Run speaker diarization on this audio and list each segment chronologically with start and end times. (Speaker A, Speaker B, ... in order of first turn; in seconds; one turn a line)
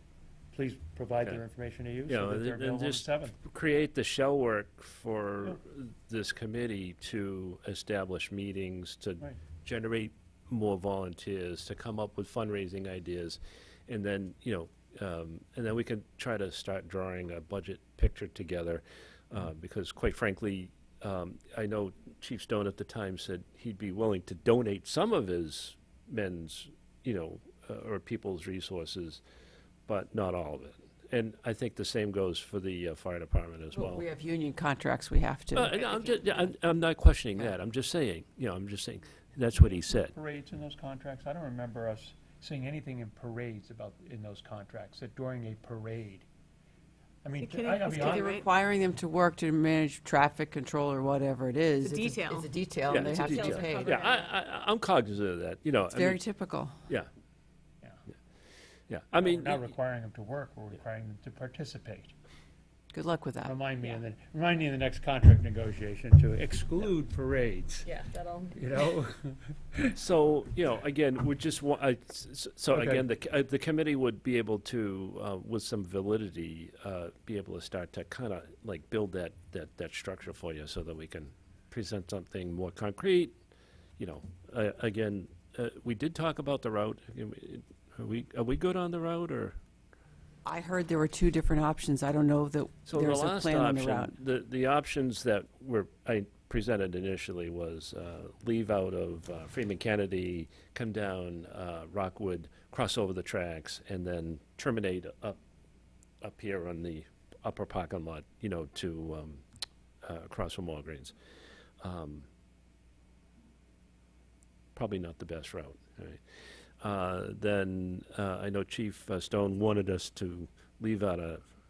Speaker A: 0.5-3.4
Speaker B: 2.1-29.2
Speaker B: 29.9-34.0
Speaker C: 33.7-36.5
Speaker B: 35.5-40.1
Speaker A: 40.0-46.2
Speaker A: 47.2-48.4
Speaker D: 47.4-48.5
Speaker C: 47.9-54.0
Speaker D: 51.8-54.3
Speaker B: 52.9-56.2
Speaker C: 55.9-56.8
Speaker B: 58.9-59.7
Speaker A: 59.2-62.1
Speaker C: 62.9-64.0
Speaker A: 63.4-67.9
Speaker D: 67.8-68.5
Speaker A: 68.5-70.0
Speaker B: 70.0-83.3
Speaker A: 72.7-73.0
Speaker B: 84.0-89.6
Speaker C: 90.4-94.2
Speaker B: 92.9-105.4
Speaker B: 106.2-109.4
Speaker B: 110.0-111.1
Speaker B: 111.8-112.3
Speaker B: 114.8-116.2
Speaker B: 116.8-121.4